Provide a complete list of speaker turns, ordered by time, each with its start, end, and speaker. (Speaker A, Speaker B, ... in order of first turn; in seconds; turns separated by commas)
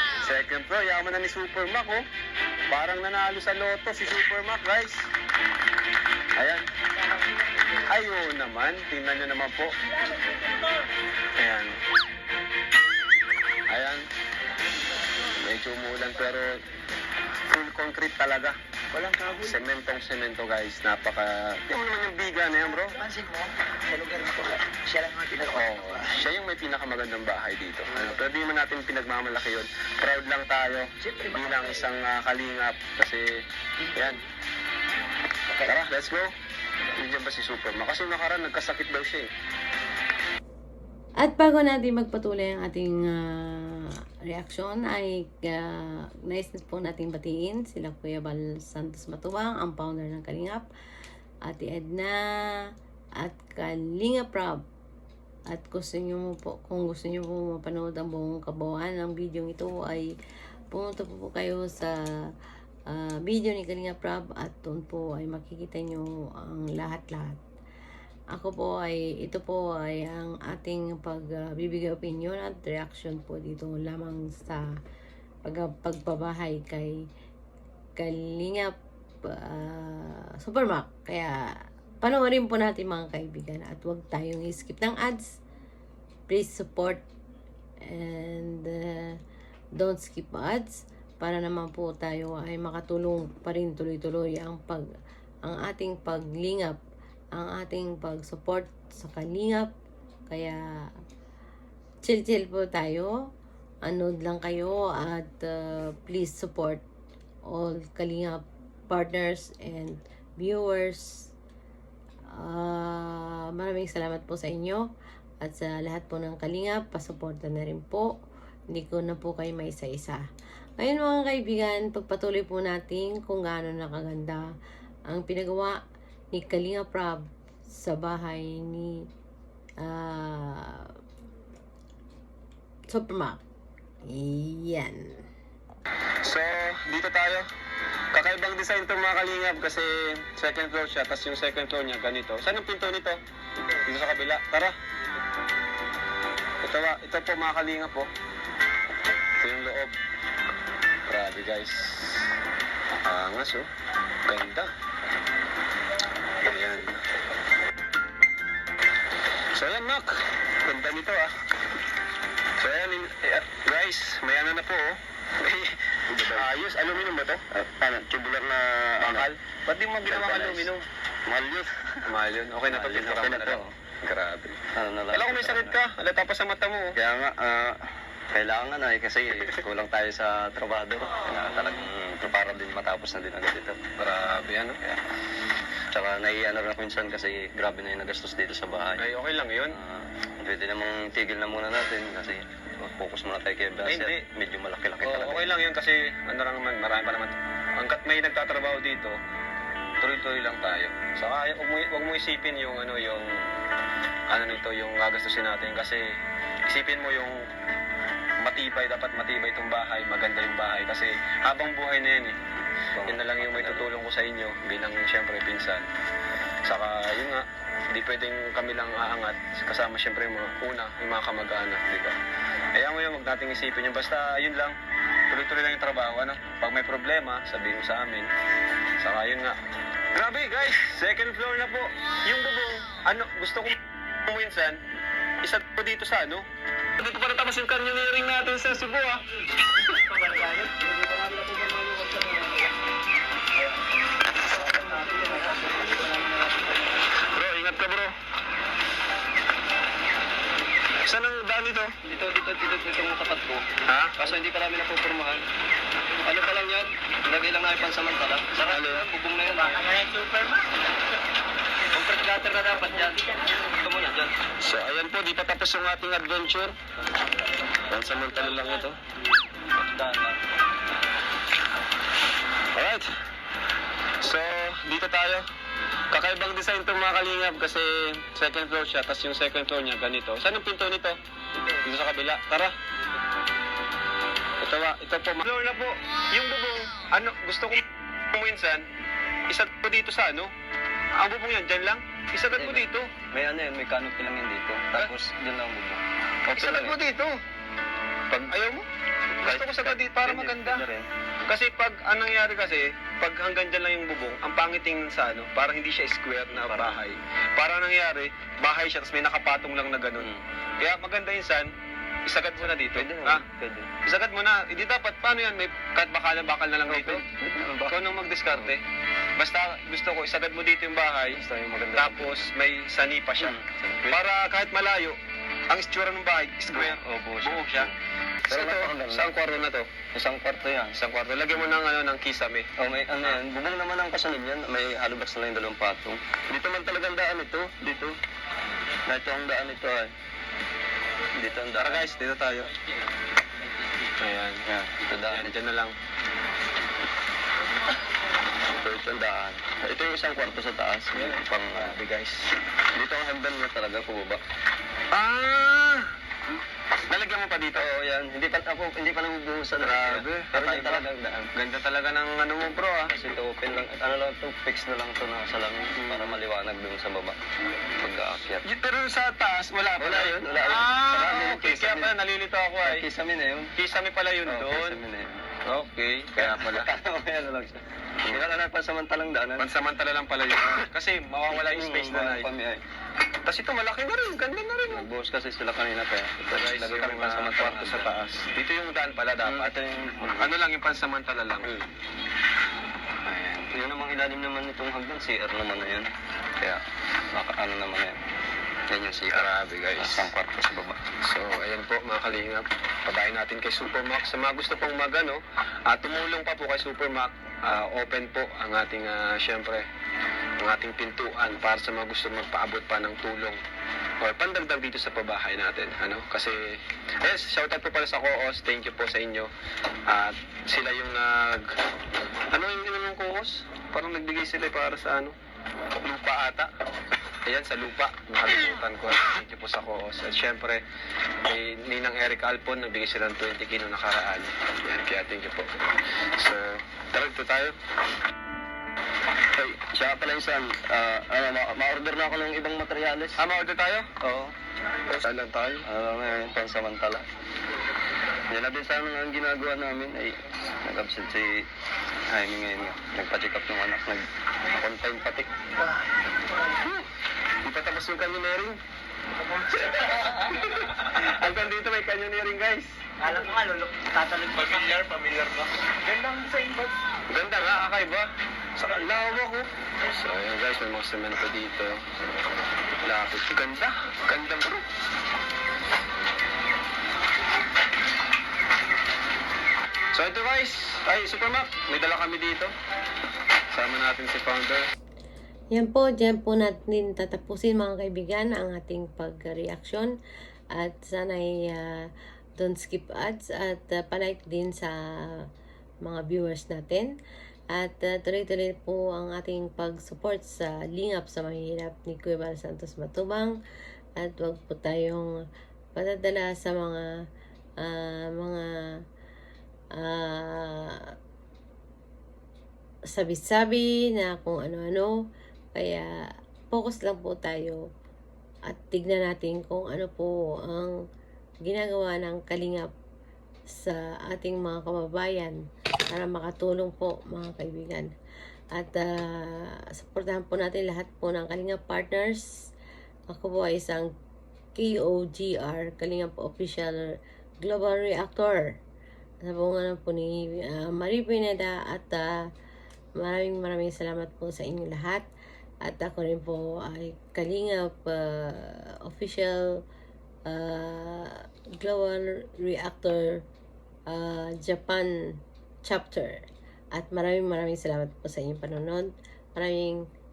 Speaker A: 0.2-2.0, Speaker A: 2.7-5.1, Speaker A: 7.9-9.7, Speaker B: 10.5-10.7, Speaker A: 11.4-11.8, Speaker A: 13.7-14.1, Speaker A: 15.4-16.5, Speaker A: 17.5-18.6, Speaker B: 18.9-19.6, Speaker A: 19.4-23.0, Speaker B: 23.0-26.1, Speaker A: 25.4-33.3, Speaker B: 31.2-31.7, Speaker A: 33.9-34.2, Speaker A: 35.6-36.3, Speaker A: 37.0-39.3, Speaker C: 41.2-50.7, Speaker C: 51.5-52.2, Speaker C: 53.2-54.6, Speaker C: 55.5-60.2, Speaker C: 60.7-62.3, Speaker C: 62.9-67.4, Speaker C: 68.3-74.7, Speaker C: 75.5-77.0, Speaker C: 78.0-78.7, Speaker C: 79.2-85.3, Speaker C: 86.3-87.0, Speaker C: 87.8-89.2, Speaker C: 89.8-94.9, Speaker C: 95.4-96.8, Speaker C: 97.3-99.7, Speaker C: 100.3-100.9, Speaker C: 102.0-103.1, Speaker C: 103.8-106.8, Speaker C: 107.5-111.3, Speaker C: 112.3-114.8, Speaker C: 115.4-118.1, Speaker C: 118.7-120.2, Speaker C: 120.8-124.5, Speaker C: 125.1-125.8, Speaker C: 126.3-129.0, Speaker C: 129.8-130.9, Speaker C: 132.9-133.4, Speaker C: 134.1-135.2, Speaker A: 136.2-137.5, Speaker A: 138.1-143.2, Speaker A: 143.8-144.7, Speaker A: 146.6-148.1, Speaker A: 149.4-149.9, Speaker A: 151.1-152.2, Speaker A: 153.1-153.7, Speaker A: 154.3-154.7, Speaker A: 156.4-157.0, Speaker A: 159.6-161.3, Speaker A: 162.6-167.4, Speaker D: 166.1-166.5, Speaker D: 167.5-169.3, Speaker A: 169.0-170.8, Speaker D: 170.1-170.7, Speaker D: 171.3-172.1, Speaker A: 172.1-174.6, Speaker D: 172.7-173.7, Speaker D: 174.8-175.8, Speaker A: 175.1-176.9, Speaker D: 176.9-177.8, Speaker D: 178.3-183.8, Speaker A: 184.0-184.9, Speaker D: 185.9-189.0, Speaker A: 189.0-189.8, Speaker D: 189.7-195.5, Speaker A: 193.8-194.2, Speaker A: 195.0-199.2, Speaker A: 200.0-203.5, Speaker A: 204.3-206.2, Speaker A: 206.7-207.4, Speaker A: 208.4-212.4, Speaker D: 213.0-213.9, Speaker A: 213.1-215.9, Speaker A: 216.7-222.2, Speaker A: 222.8-224.8, Speaker A: 225.3-228.3, Speaker A: 229.0-229.6, Speaker A: 230.2-234.8, Speaker A: 235.4-236.4, Speaker A: 237.0-239.2, Speaker B: 240.3-242.2, Speaker B: 244.6-246.0, Speaker A: 247.3-248.2, Speaker A: 251.1-251.9, Speaker D: 252.1-255.4, Speaker A: 253.9-254.2, Speaker D: 256.2-260.0, Speaker A: 258.6-259.1, Speaker B: 259.7-260.7, Speaker D: 261.9-264.3, Speaker A: 264.6-266.7, Speaker A: 267.9-269.0, Speaker D: 269.8-270.4, Speaker A: 272.8-273.1, Speaker A: 274.2-275.4, Speaker A: 276.1-281.2, Speaker A: 281.8-282.7, Speaker A: 284.6-288.9, Speaker A: 289.5-290.5, Speaker A: 291.2-293.1, Speaker D: 292.5-297.0, Speaker A: 296.6-297.4, Speaker A: 298.5-298.9, Speaker D: 299.4-301.1, Speaker A: 299.4-300.9, Speaker A: 301.5-311.7, Speaker D: 306.5-307.0, Speaker D: 310.2-310.4, Speaker A: 312.3-313.4, Speaker D: 312.6-313.9, Speaker A: 314.0-317.2, Speaker D: 316.9-318.8, Speaker A: 317.9-318.8, Speaker A: 319.4-321.4, Speaker D: 321.3-322.5, Speaker A: 321.9-323.6, Speaker D: 323.4-324.2, Speaker A: 324.1-325.2, Speaker A: 325.7-327.9, Speaker D: 326.7-327.9, Speaker A: 328.5-329.9, Speaker D: 328.5-329.3, Speaker D: 330.1-331.0, Speaker A: 330.9-332.7, Speaker D: 332.8-338.1, Speaker D: 339.1-340.1, Speaker D: 341.4-342.0, Speaker A: 341.8-342.7, Speaker A: 344.2-344.6, Speaker D: 344.7-345.5, Speaker A: 345.2-345.9, Speaker D: 348.8-352.0, Speaker A: 351.1-352.5, Speaker D: 353.0-354.4, Speaker A: 355.1-356.1, Speaker A: 357.1-357.9, Speaker D: 357.7-361.5, Speaker A: 359.8-363.1, Speaker D: 363.1-367.4, Speaker A: 366.0-366.4, Speaker D: 368.0-368.6, Speaker A: 368.6-373.1, Speaker D: 370.0-372.1, Speaker D: 372.8-373.7, Speaker A: 373.8-375.0, Speaker D: 374.4-375.4, Speaker A: 375.6-376.9, Speaker D: 376.4-379.7, Speaker A: 379.6-382.5, Speaker D: 381.5-382.8, Speaker A: 383.4-385.1, Speaker D: 384.9-388.1, Speaker A: 386.5-389.8, Speaker D: 389.4-390.5, Speaker A: 390.4-391.7, Speaker D: 393.3-396.8, Speaker D: 397.3-398.2, Speaker D: 398.9-401.0, Speaker A: 399.3-400.3, Speaker A: 401.2-409.9, Speaker A: 410.6-413.6, Speaker A: 414.2-419.5, Speaker A: 420.1-421.7, Speaker A: 422.5-425.4, Speaker A: 426.1-426.7, Speaker A: 427.5-430.8, Speaker A: 431.4-435.7, Speaker A: 436.4-437.8, Speaker D: 439.6-443.4, Speaker A: 443.4-444.1, Speaker D: 444.2-444.5, Speaker A: 445.1-445.9, Speaker D: 445.8-447.2, Speaker D: 448.5-451.6, Speaker D: 452.3-455.5, Speaker A: 456.8-457.1, Speaker A: 457.6-458.8, Speaker A: 459.7-463.3, Speaker B: 463.2-464.9, Speaker A: 464.6-465.7, Speaker B: 466.1-466.9, Speaker A: 467.3-472.0, Speaker A: 473.0-474.8, Speaker A: 480.1-482.7, Speaker A: 483.7-484.9, Speaker C: 485.7-490.1, Speaker C: 490.7-495.5, Speaker C: 496.0-497.1, Speaker C: 497.7-503.6, Speaker C: 504.2-505.4, Speaker C: 505.9-507.1, Speaker C: 507.8-508.9, Speaker C: 509.9-511.1, Speaker C: 513.1-515.1, Speaker C: 515.8-517.8, Speaker C: 518.7-521.0, Speaker C: 521.6-522.9, Speaker C: 523.7-528.1, Speaker C: 528.7-532.5, Speaker C: 533.3-534.1, Speaker C: 534.8-538.7, Speaker C: 539.4-542.4, Speaker C: 543.2-545.3, Speaker C: 545.8-549.8, Speaker C: 550.5-553.4, Speaker C: 554.1-555.1, Speaker C: 555.8-560.0